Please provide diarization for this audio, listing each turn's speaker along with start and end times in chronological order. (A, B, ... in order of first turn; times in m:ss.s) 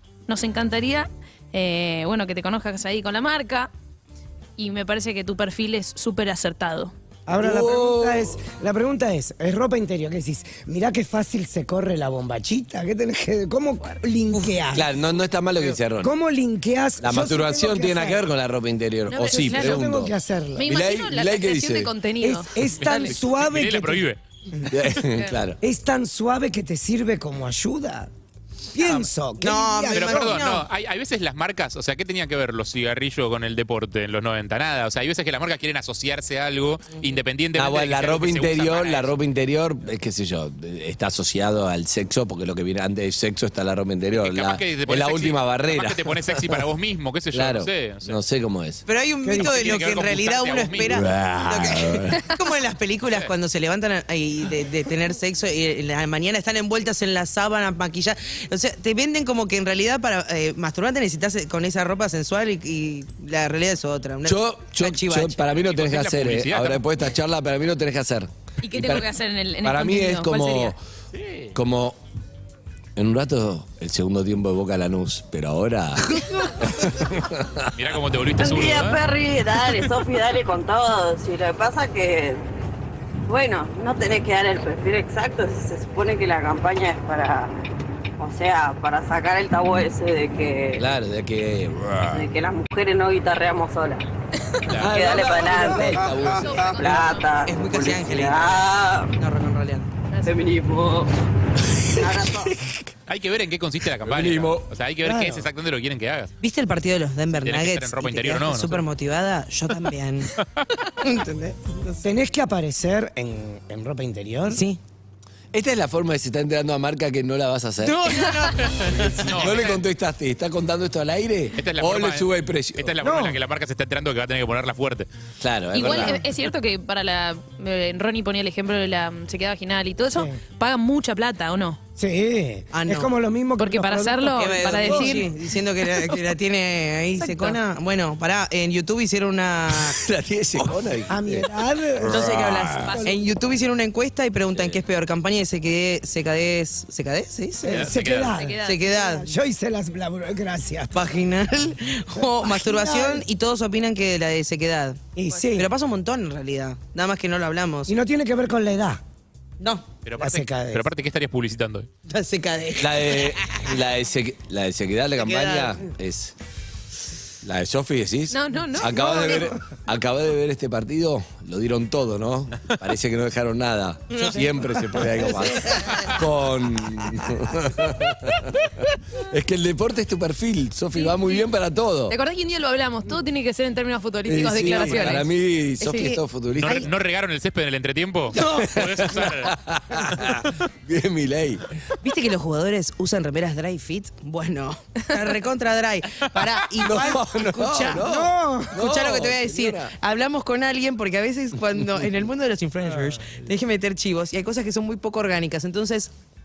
0:00.3-0:03.7 A
0:04.6-0:06.9 A
0:07.3-0:14.9 B
0:07.4-0:08.4 C
0:14.7-0:16.1 C
0:16.0-0:18.2 B
0:17.0-0:21.9 C
0:19.1-0:19.8 A
0:19.2-0:20.7 B
0:20.6-0:22.9 A
0:22.2-0:24.1 B
0:22.8-0:24.2 D
0:22.9-0:23.1 E
0:24.7-0:25.6 C
0:25.6-0:28.1 B
0:28.7-0:30.4 B
0:29.4-0:30.7 E
0:29.9-0:39.1 D
0:37.6-0:46.6 C
0:44.1-0:48.2 D
0:47.3-0:48.8 C
0:48.9-1:05.4 E
0:49.2-0:49.5 B
0:49.4-0:51.0 D
0:50.8-0:52.2 C
1:04.2-1:09.1 C
1:05.6-1:06.8 D
1:08.6-1:10.8 A
1:09.6-1:10.8 C
1:11.1-1:11.5 D
1:11.5-1:12.0 C
1:13.0-1:17.7 C
1:17.7-1:19.0 D
1:18.4-1:22.4 F
1:23.3-1:27.5 F
1:28.2-1:30.9 F
1:30.8-1:32.3 C
1:32.1-1:34.0 F
1:34.7-1:35.0 D
1:34.8-1:37.0 C
1:34.8-1:39.2 F
1:35.9-1:37.3 A
1:37.4-1:38.6 E
1:39.2-1:39.9 E
1:40.1-1:40.4 A
1:40.2-1:41.1 F
1:41.6-1:42.9 C
1:42.0-1:42.5 F
1:43.1-1:46.3 D
1:44.0-1:44.7 C
1:45.0-1:45.5 B
1:46.4-1:50.3 E
1:47.4-1:48.9 D
1:50.4-1:50.7 D
1:51.0-1:52.1 E
1:52.0-1:54.6 B
1:54.5-1:54.8 E
1:55.5-1:58.2 C
1:57.8-1:59.4 E
1:58.8-2:03.0 C
1:59.3-1:59.8 D
2:01.6-2:05.1 D
2:03.0-2:03.4 B
2:05.4-2:06.2 C
2:05.7-2:11.8 A
2:12.0-2:15.4 B
2:12.7-2:13.1 E
2:13.6-2:15.3 A
2:14.4-2:20.0 E
2:17.2-2:17.6 A
2:19.7-2:21.5 C
2:21.1-2:22.3 B
2:22.0-2:23.0 C
2:22.0-2:27.9 E
2:22.8-2:23.2 A
2:24.5-2:24.8 C
2:27.6-2:31.1 B
2:27.7-2:28.4 D
2:28.2-2:29.0 A
2:28.6-2:29.3 E
2:30.9-2:35.0 E
2:32.2-2:33.2 B
2:35.2-2:35.7 B
2:35.5-2:37.9 E
2:37.9-2:39.0 B
2:39.6-2:39.9 E
2:40.0-2:41.9 D
2:40.2-2:40.9 B
2:42.1-2:43.7 E
2:42.8-2:46.4 C
2:45.2-2:45.8 E
2:47.4-3:02.2 C
2:48.3-2:49.5 A
2:49.0-2:49.4 B
2:54.1-2:56.0 E
3:01.0-3:01.4 A
3:02.1-3:05.3 A
3:04.2-3:06.9 C
3:04.8-3:05.2 E
3:05.8-3:06.8 E
3:06.6-3:09.6 D
3:08.3-3:11.8 C
3:08.3-3:08.8 E
3:12.0-3:26.1 E
3:16.8-3:19.9 C
3:17.9-3:18.8 B